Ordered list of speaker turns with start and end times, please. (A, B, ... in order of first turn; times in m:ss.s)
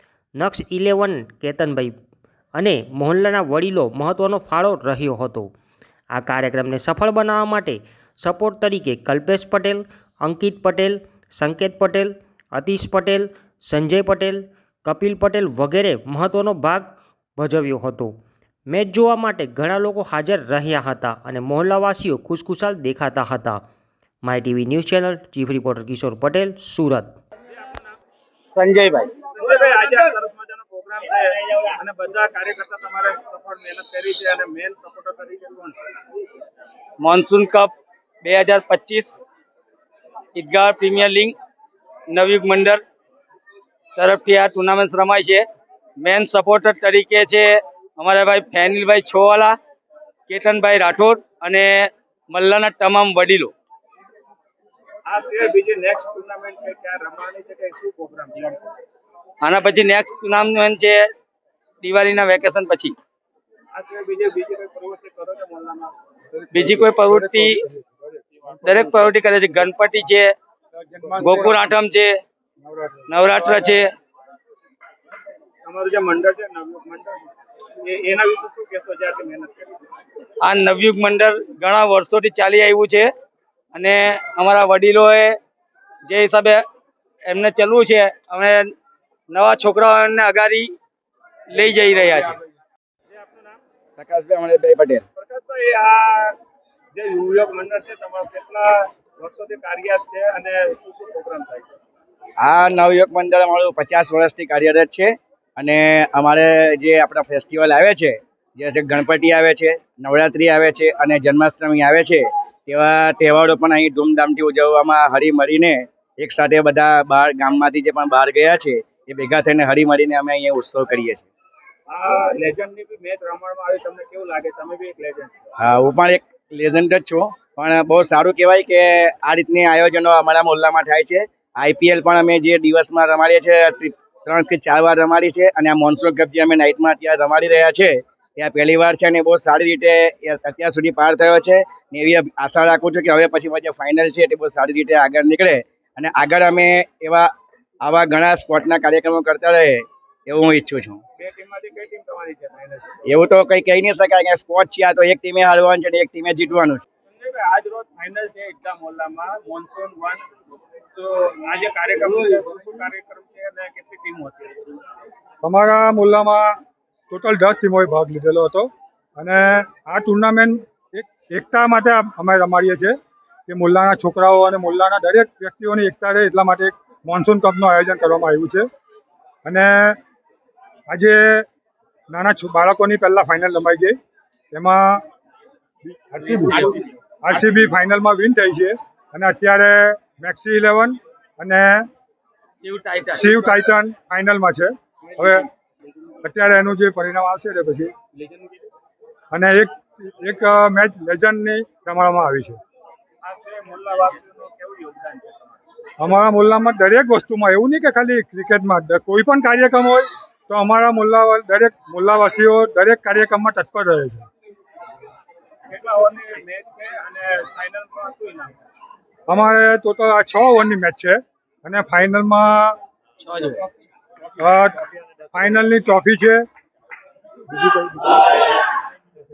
0:00.4-0:02.0 A
0:02.5-0:05.5 A
0:06.1-0:18.2 A
0:18.7-0:23.6 A
0:24.2-0:27.1 A
0:27.5-0:27.8 B
0:28.6-0:29.1 C
0:29.4-0:35.8 B
0:37.0-0:39.2 C
0:40.3-0:41.3 C
0:42.1-0:42.8 C
0:44.0-0:45.4 C
0:46.0-0:49.6 C
0:50.3-0:53.5 C
0:55.1-0:58.6 B
0:59.4-1:01.1 C
1:01.8-1:02.9 C
1:03.7-1:06.0 B
1:06.5-1:07.6 C
1:07.0-1:07.9 D
1:08.6-1:10.3 C
1:11.2-1:12.1 C
1:12.7-1:13.0 D
1:13.1-1:13.9 C
1:15.6-1:17.2 B
1:17.8-1:19.8 B
1:20.4-1:23.1 C
1:23.7-1:25.4 C
1:26.1-1:26.6 C
1:27.3-1:28.7 C
1:29.3-1:30.7 C
1:31.5-1:32.3 C
1:33.1-1:33.6 B
1:34.0-1:35.0 E
1:35.2-1:36.4 B
1:36.9-1:41.7 B
1:42.4-2:01.3 E
2:01.9-2:05.3 B
2:05.6-2:27.3 E
2:27.8-2:31.0 E
2:31.2-2:33.0 B
2:33.0-2:36.8 E
2:37.1-2:40.3 B
2:40.9-2:44.6 B
2:45.4-2:46.6 D
2:47.1-2:53.0 D
2:53.5-2:58.7 D
2:59.4-3:00.0 D
3:00.9-3:01.4 D
3:02.1-3:04.0 D
3:04.5-3:05.0 D
3:05.9-3:11.9 D
3:12.6-3:13.2 C
3:13.1-3:15.5 D
3:16.2-3:17.9 D
3:18.2-3:18.6 B
3:19.3-3:22.6 D
3:23.2-3:25.6 B
3:26.0-3:34.3 D
3:35.7-3:38.6 B
3:39.3-3:42.8 D
3:44.4-3:44.8 D
3:45.3-3:46.4 D
3:47.5-3:48.5 D